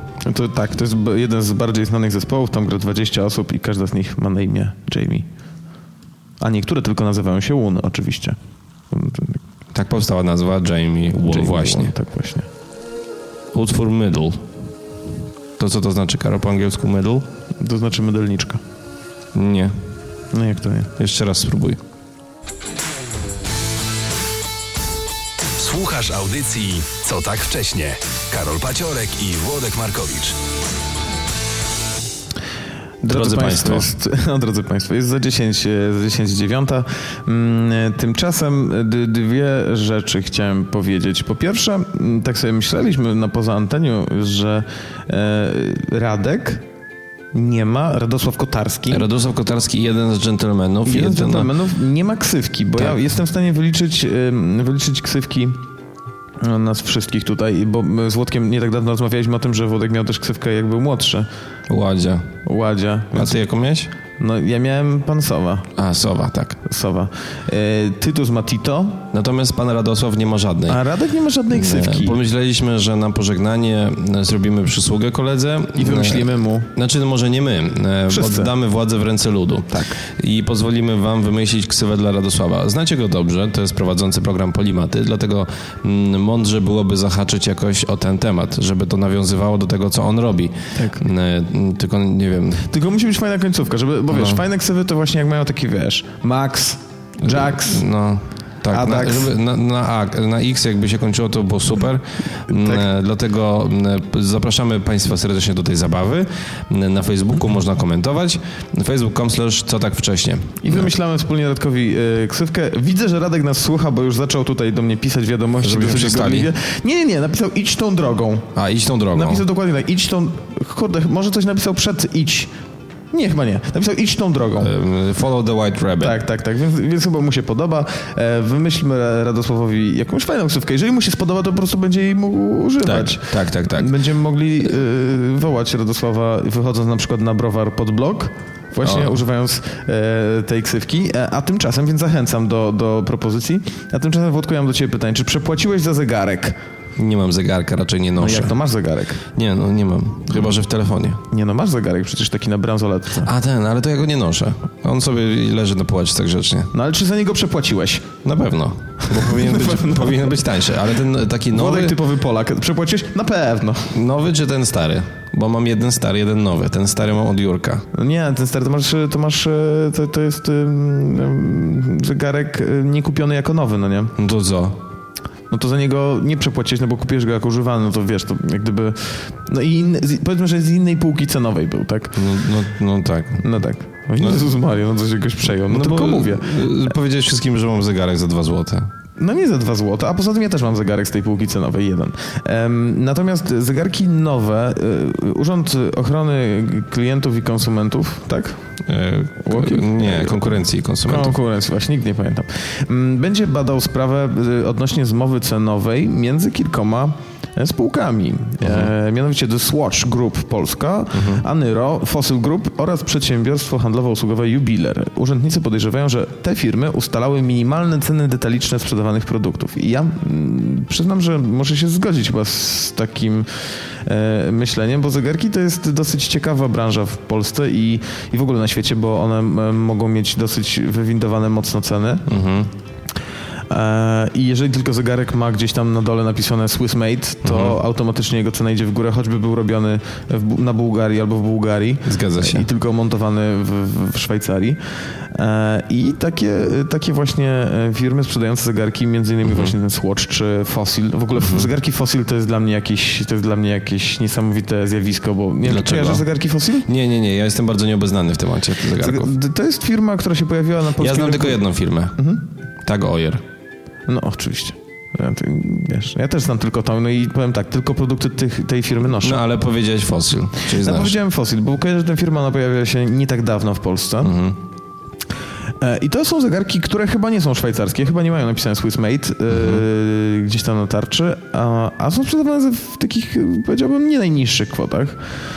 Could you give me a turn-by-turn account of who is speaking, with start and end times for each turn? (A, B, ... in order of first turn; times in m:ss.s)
0:00.2-0:05.3 A
0:06.4-0:08.4 A
0:08.9-0:09.4 A
0:09.7-0:11.9 B
0:11.1-0:12.5 A
0:13.5-0:14.5 B
0:15.6-0:17.2 B
0:17.6-0:18.6 A
0:19.3-0:19.7 B
0:20.3-0:20.9 A
0:21.0-0:21.8 B
0:25.6-0:30.4 C
0:33.0-0:46.6 A
0:33.1-0:33.9 B
0:47.3-0:49.1 A
0:48.9-0:51.5 B
0:50.8-0:55.6 A
0:56.4-1:01.3 A
1:01.7-1:02.3 B
1:02.4-1:03.4 A
1:03.1-1:03.9 B
1:04.2-1:05.7 A
1:05.8-1:06.6 B
1:06.6-1:09.0 A
1:09.1-1:10.8 B
1:10.7-1:12.2 A
1:11.5-1:32.6 B
1:15.8-1:16.7 A
1:18.1-1:18.5 A
1:19.7-1:20.0 A
1:30.7-1:31.0 A
1:32.7-1:37.8 A
1:34.1-1:34.4 B
1:37.2-1:50.9 B
1:38.7-1:39.3 A
1:42.5-1:42.8 A
1:50.6-1:58.5 A
1:55.6-1:56.5 B
1:58.5-1:59.4 B
1:59.1-2:02.5 A
2:03.1-2:04.7 A
2:04.6-2:06.2 B
2:06.0-2:26.6 A
2:12.8-2:14.0 B
2:18.8-2:19.2 B
2:27.0-2:28.6 B
2:28.2-2:29.2 A
2:29.3-2:31.2 B
2:31.3-2:33.3 A
2:33.2-2:36.7 B
2:36.7-2:38.1 A
2:38.2-2:42.0 B
2:39.0-2:40.4 A
2:41.5-2:43.9 A
2:43.9-2:47.9 B
2:47.9-2:54.1 A
2:54.2-2:54.8 B
2:55.5-3:02.2 A
3:02.1-3:03.4 B
3:03.4-3:06.7 A
3:05.7-3:08.9 B
3:09.2-3:18.6 A
3:18.8-3:21.4 B
3:19.4-3:52.3 A
3:28.6-3:28.9 B
3:31.1-3:31.4 B
3:52.3-3:52.7 B
3:53.7-4:04.8 A
3:57.4-3:57.8 B
4:02.0-4:02.6 B
4:05.3-4:16.9 A
4:09.4-4:09.7 B
4:11.4-4:11.7 B
4:15.6-4:16.3 B
4:16.8-4:19.3 B
4:19.0-4:21.6 A
4:21.0-4:22.2 B
4:22.2-4:22.4 A
4:22.8-4:23.4 B
4:24.1-4:29.4 A
4:29.1-4:31.2 B
4:30.6-4:34.4 A
4:34.2-4:34.6 B
4:35.8-4:45.2 A
4:39.5-4:39.8 B